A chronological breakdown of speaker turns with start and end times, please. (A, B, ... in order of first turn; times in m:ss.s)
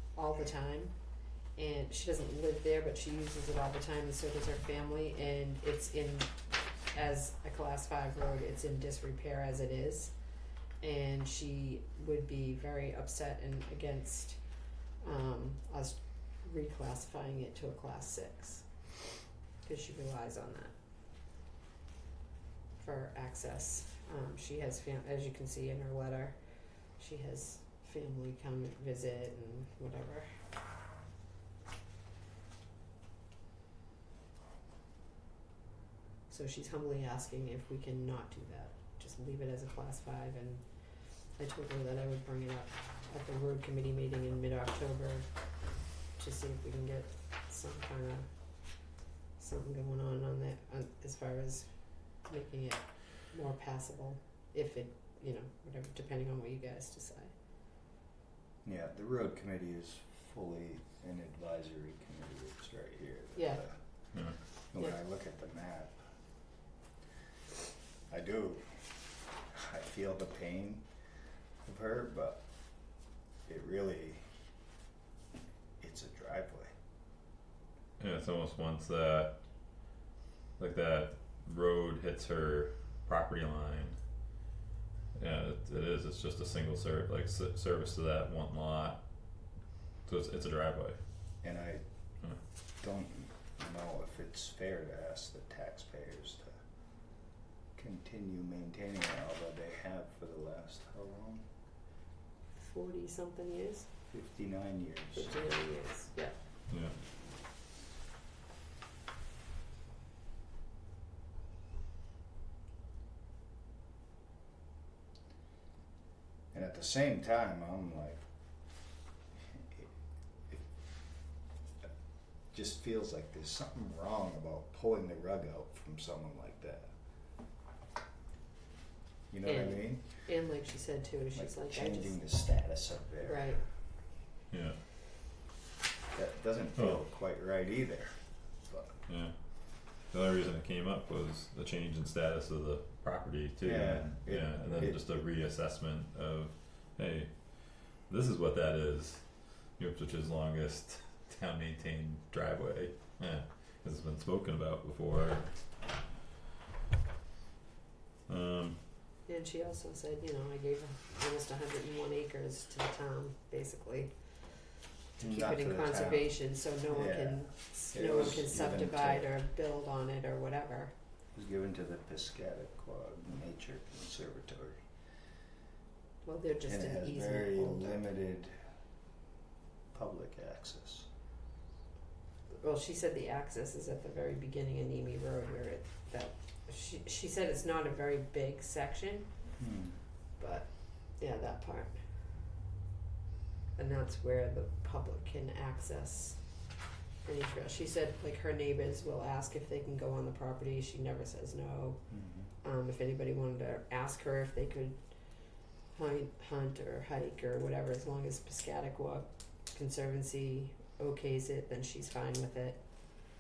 0:00.2-0:00.9 A
0:01.6-0:06.4 A
0:06.9-0:10.1 A
0:10.8-0:14.4 A
0:15.0-0:18.7 A
0:19.6-0:20.7 A
0:22.8-0:26.4 A
0:27.0-0:30.3 A
0:36.3-0:40.6 A
0:41.4-0:45.3 A
0:46.2-0:48.3 A
0:49.4-0:51.7 A
0:52.2-0:57.3 A
0:58.6-1:03.8 B
1:03.4-1:03.6 A
1:04.1-1:04.4 C
1:04.7-1:06.0 B
1:08.1-1:08.9 B
1:09.5-1:10.8 B
1:11.6-1:12.4 B
1:13.5-1:14.2 B
1:15.8-1:16.7 B
1:18.0-1:19.3 C
1:20.6-1:24.0 C
1:25.2-1:29.0 C
1:30.1-1:31.0 C
1:31.4-1:31.8 B
1:32.8-1:36.6 B
1:37.8-1:41.4 B
1:42.5-1:43.9 A
1:44.1-1:45.4 B
1:45.2-1:46.3 A
1:46.7-1:46.9 C
1:56.5-1:58.2 B
1:59.4-1:59.9 B
2:02.5-2:06.9 B
2:09.3-2:10.0 B
2:09.4-2:12.2 A
2:11.4-2:13.6 B
2:13.2-2:13.6 A
2:14.5-2:14.8 C
2:16.1-2:19.0 B
2:16.8-2:17.0 C
2:19.1-2:19.3 C
2:20.0-2:35.5 C
2:23.6-2:25.0 B
2:38.3-2:38.8 C
2:39.3-2:44.1 A
2:45.2-2:46.4 B
2:45.2-2:50.9 A
2:46.9-2:49.3 B
2:51.4-2:54.8 B
2:56.2-2:58.0 A
2:56.7-2:58.5 B
2:59.9-3:01.1 B
3:02.5-3:09.3 A
3:09.6-3:10.0 B
3:10.4-3:11.9 A
3:13.8-3:16.4 A
3:17.2-3:22.0 A
3:22.1-3:22.5 B
3:22.6-3:25.0 A
3:25.9-3:32.8 A